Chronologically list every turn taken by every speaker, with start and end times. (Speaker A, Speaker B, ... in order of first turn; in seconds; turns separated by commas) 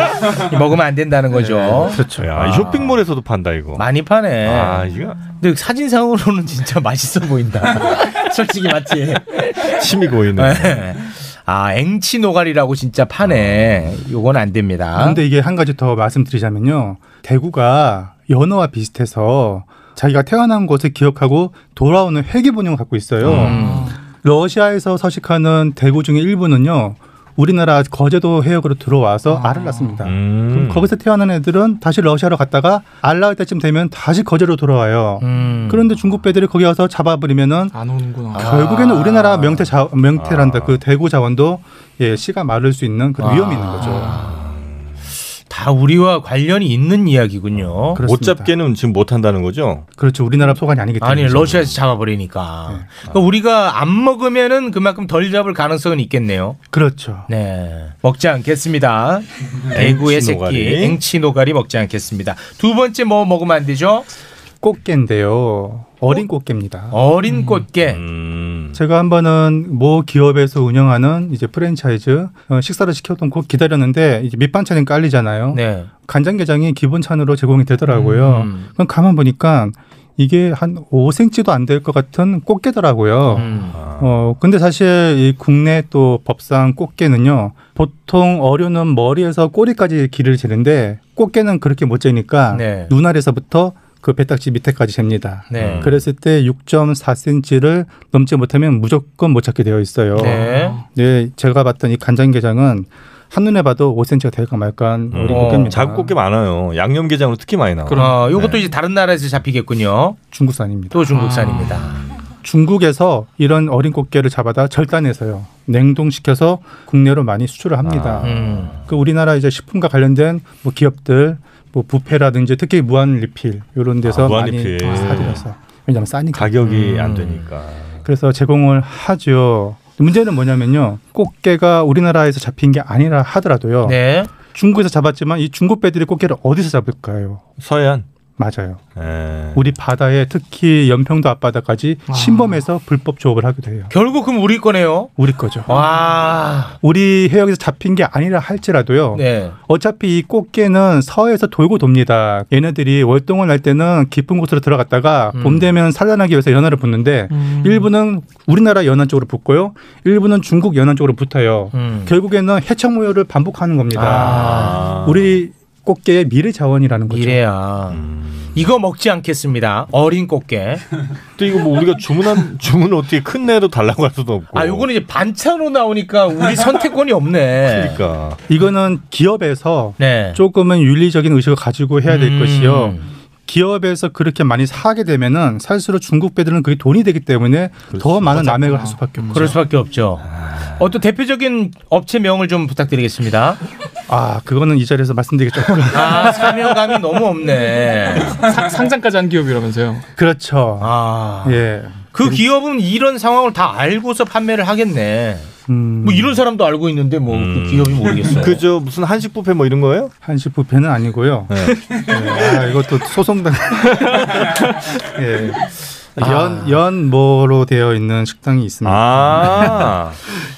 Speaker A: 0.3-2.9, Speaker B: 1.3-2.6, Speaker C: 2.1-3.9, Speaker A: 3.8-9.7, Speaker C: 4.4-5.3, Speaker C: 9.8-10.8, Speaker A: 10.4-15.2, Speaker B: 15.0-23.5, Speaker C: 23.2-23.6, Speaker A: 23.2-23.9, Speaker D: 23.4-24.0, Speaker B: 24.2-37.7, Speaker D: 29.3-30.0, Speaker C: 30.0-30.9, Speaker A: 35.2-35.9, Speaker D: 37.7-38.5, Speaker A: 38.3-39.7, Speaker B: 38.3-44.1, Speaker C: 40.2-40.8, Speaker A: 43.2-44.5, Speaker D: 43.8-44.1, Speaker C: 44.1-44.9, Speaker A: 45.5-48.0, Speaker C: 47.6-49.9, Speaker B: 48.0-48.5, Speaker B: 50.0-51.6, Speaker A: 51.0-56.6, Speaker B: 56.7-57.3, Speaker A: 57.3-64.1, Speaker C: 59.7-61.0, Speaker B: 64.6-67.0, Speaker A: 66.9-68.0, Speaker D: 67.3-67.6, Speaker C: 67.8-68.8, Speaker B: 68.7-106.1, Speaker A: 75.5-75.9, Speaker A: 78.0-78.7, Speaker A: 83.4-83.8, Speaker C: 83.7-84.2, Speaker A: 92.5-93.0, Speaker A: 95.5-96.0, Speaker C: 95.5-96.0, Speaker A: 100.1-100.8, Speaker D: 100.2-100.8, Speaker C: 105.1-108.6, Speaker A: 105.3-105.8, Speaker D: 107.9-108.2, Speaker A: 107.9-110.2, Speaker B: 110.3-111.1, Speaker A: 110.9-112.0, Speaker D: 111.2-111.8, Speaker B: 112.4-126.6, Speaker C: 117.8-118.9, Speaker A: 118.2-118.7, Speaker C: 124.0-125.4, Speaker D: 124.8-125.4, Speaker C: 126.3-128.0, Speaker A: 126.6-127.3, Speaker B: 128.1-137.4, Speaker A: 133.8-134.3, Speaker C: 137.6-138.1, Speaker B: 138.4-138.8, Speaker C: 138.9-139.7, Speaker B: 139.5-143.9, Speaker D: 142.1-142.6, Speaker A: 143.9-145.1, Speaker B: 145.2-145.7, Speaker A: 145.7-146.8, Speaker B: 146.8-167.4, Speaker A: 149.1-149.6, Speaker A: 155.3-155.7, Speaker D: 157.3-157.9, Speaker A: 161.7-162.1, Speaker A: 163.9-164.9, Speaker C: 164.0-165.4, Speaker A: 167.1-168.0, Speaker C: 167.9-168.6, Speaker A: 168.6-170.8, Speaker C: 171.4-174.9, Speaker A: 174.5-178.0, Speaker C: 177.6-178.4, Speaker B: 178.5-189.6, Speaker A: 180.0-180.4, Speaker A: 182.1-183.1, Speaker C: 187.9-188.5, Speaker D: 188.3-189.5, Speaker A: 189.3-190.3, Speaker C: 190.3-190.8, Speaker A: 190.8-193.6, Speaker B: 194.1-196.8, Speaker A: 195.9-198.4, Speaker D: 198.3-200.1, Speaker B: 200.2-200.9, Speaker A: 200.8-205.5, Speaker B: 201.4-202.4, Speaker B: 205.7-206.4, Speaker A: 206.0-208.6, Speaker C: 207.3-210.1, Speaker B: 210.2-214.5, Speaker C: 211.5-211.8, Speaker B: 215.1-219.7, Speaker A: 216.2-216.8, Speaker C: 218.8-220.2